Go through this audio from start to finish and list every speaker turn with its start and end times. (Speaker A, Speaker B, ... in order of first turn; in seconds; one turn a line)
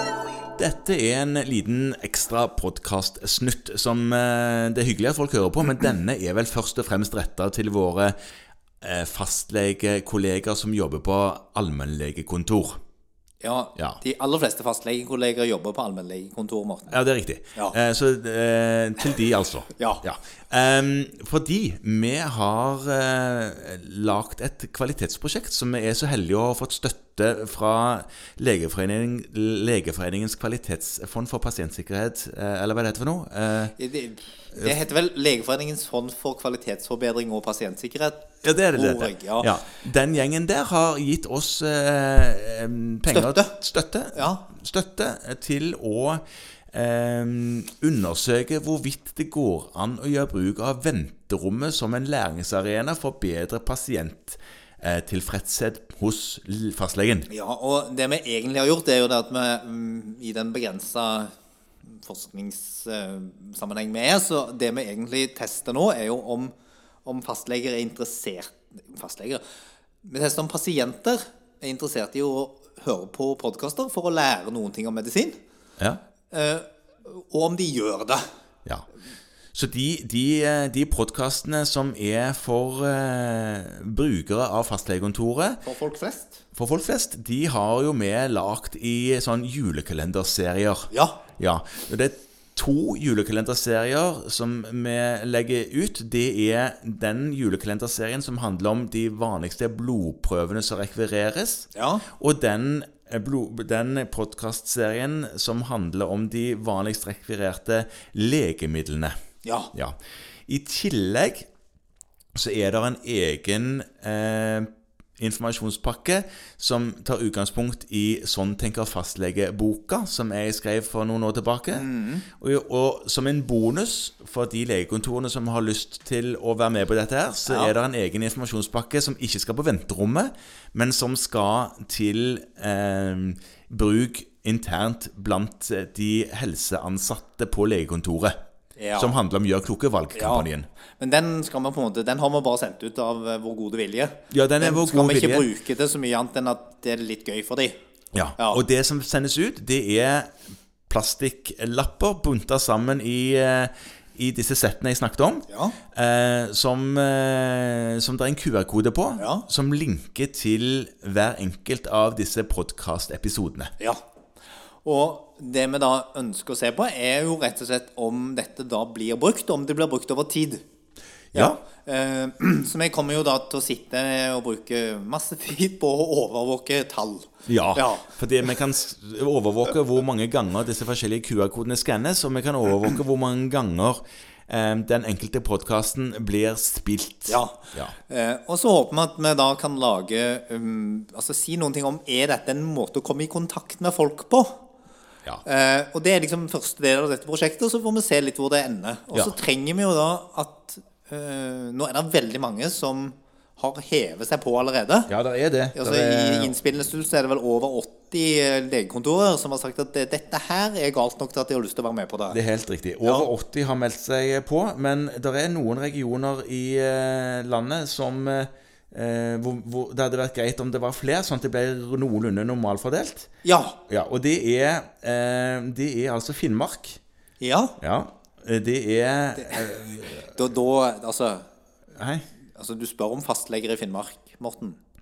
Speaker A: 0.6-8.2
Speaker A: 8.8-12.8
Speaker B: 13.4-17.0
Speaker A: 16.9-33.8
Speaker B: 19.8-20.0
Speaker B: 33.8-39.5
Speaker A: 34.5-34.8
Speaker A: 38.4-57.3
Speaker B: 43.1-43.5
Speaker B: 44.1-44.5
Speaker B: 57.3-61.3
Speaker B: 61.9-66.5
Speaker B: 67.0-69.4
Speaker B: 70.0-75.4
Speaker B: 76.3-78.2
Speaker A: 79.5-85.6
Speaker B: 85.6-86.4
Speaker A: 86.5-109.2
Speaker B: 90.9-91.2
Speaker B: 101.7-102.1
Speaker B: 109.4-109.7
Speaker A: 110.5-111.5
Speaker A: 112.3-121.9
Speaker B: 121.7-122.2
Speaker A: 122.4-138.4
Speaker B: 127.5-127.7
Speaker B: 138.8-139.2
Speaker A: 139.0-140.7
Speaker B: 140.2-140.5
Speaker B: 141.0-147.8
Speaker A: 144.3-145.5
Speaker A: 148.1-150.4
Speaker A: 150.9-163.7
Speaker B: 155.5-155.8
Speaker B: 159.2-159.5
Speaker B: 164.8-170.6
Speaker B: 171.3-178.1
Speaker A: 177.5-187.9
Speaker B: 187.3-194.6
Speaker B: 195.4-205.1
Speaker A: 205.1-206.5
Speaker B: 205.8-212.4
Speaker A: 212.3-223.3
Speaker B: 213.0-213.3
Speaker B: 223.4-223.8
Speaker A: 223.9-227.0
Speaker B: 227.4-227.8
Speaker A: 227.8-230.2
Speaker B: 229.4-231.5
Speaker A: 232.0-232.2
Speaker B: 232.6-234.8